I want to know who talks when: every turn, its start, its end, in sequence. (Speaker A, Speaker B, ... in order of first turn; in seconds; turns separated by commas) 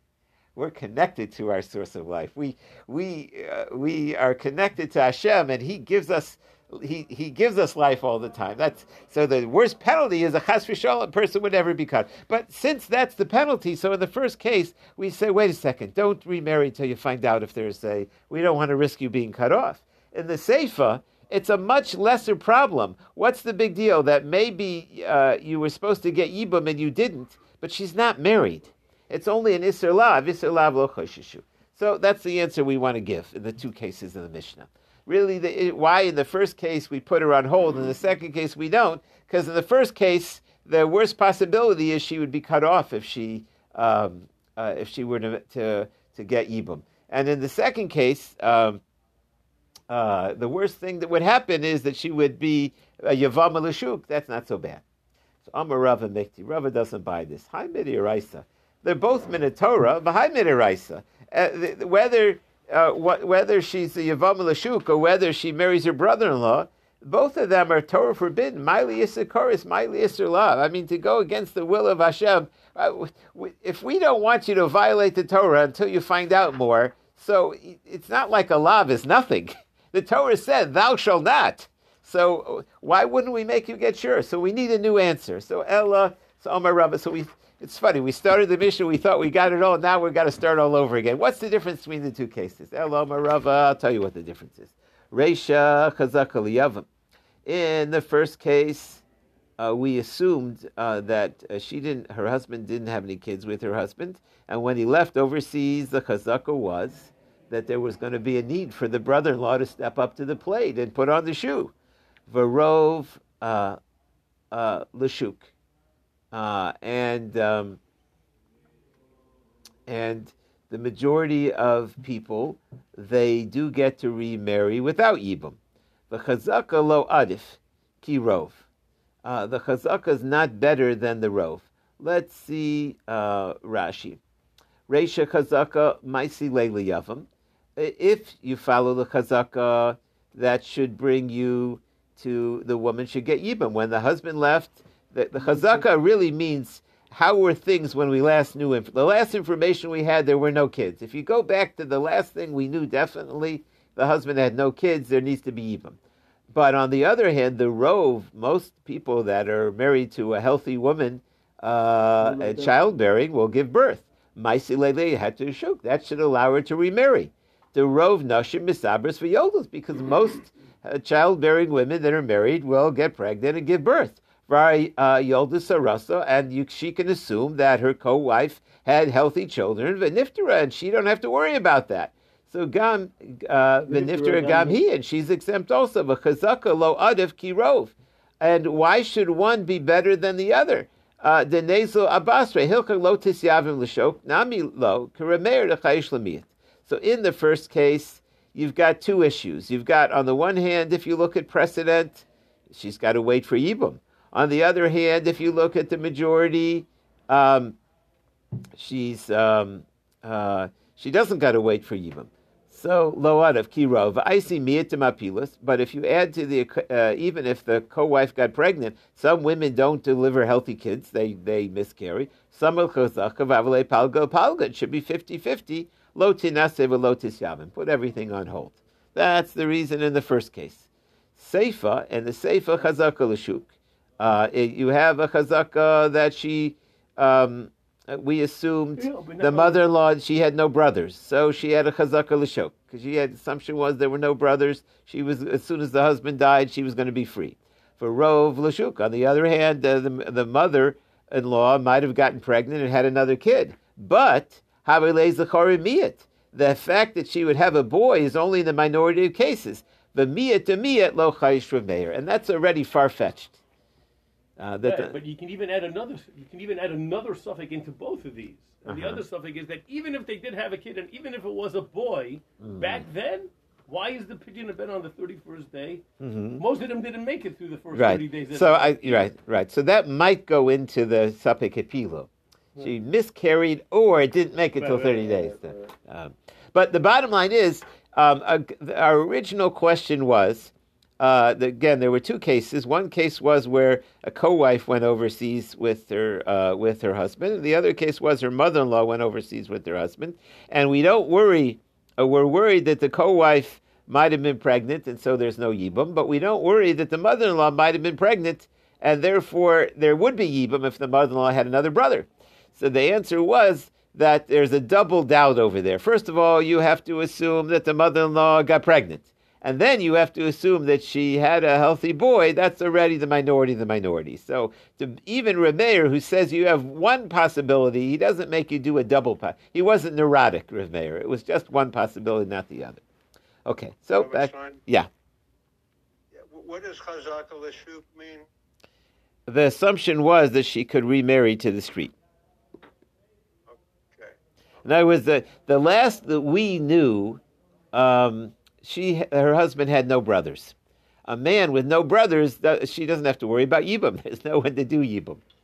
Speaker A: 0.5-48.8, Speaker A: 49.9-54.8, Speaker A: 55.4-96.8, Speaker A: 97.4-99.0, Speaker A: 99.6-111.7, Speaker A: 112.3-113.8, Speaker A: 114.5-115.5, Speaker A: 116.3-117.8, Speaker A: 119.8-125.6, Speaker A: 126.1-128.6, Speaker A: 129.2-134.2, Speaker A: 134.9-156.0, Speaker A: 156.5-207.8, Speaker B: 162.2-162.7, Speaker B: 183.8-184.8, Speaker A: 208.8-263.6, Speaker B: 239.0-239.8, Speaker A: 264.6-265.1, Speaker B: 264.8-276.0, Speaker A: 268.9-269.2, Speaker A: 272.6-273.0, Speaker A: 276.2-276.6, Speaker B: 276.6-279.3, Speaker A: 277.9-333.0, Speaker B: 284.8-285.6, Speaker A: 333.6-335.1, Speaker C: 334.1-334.8, Speaker C: 336.3-338.4, Speaker A: 339.5-342.1, Speaker C: 343.7-344.3, Speaker A: 344.8-347.4, Speaker A: 347.9-350.7, Speaker A: 351.2-355.4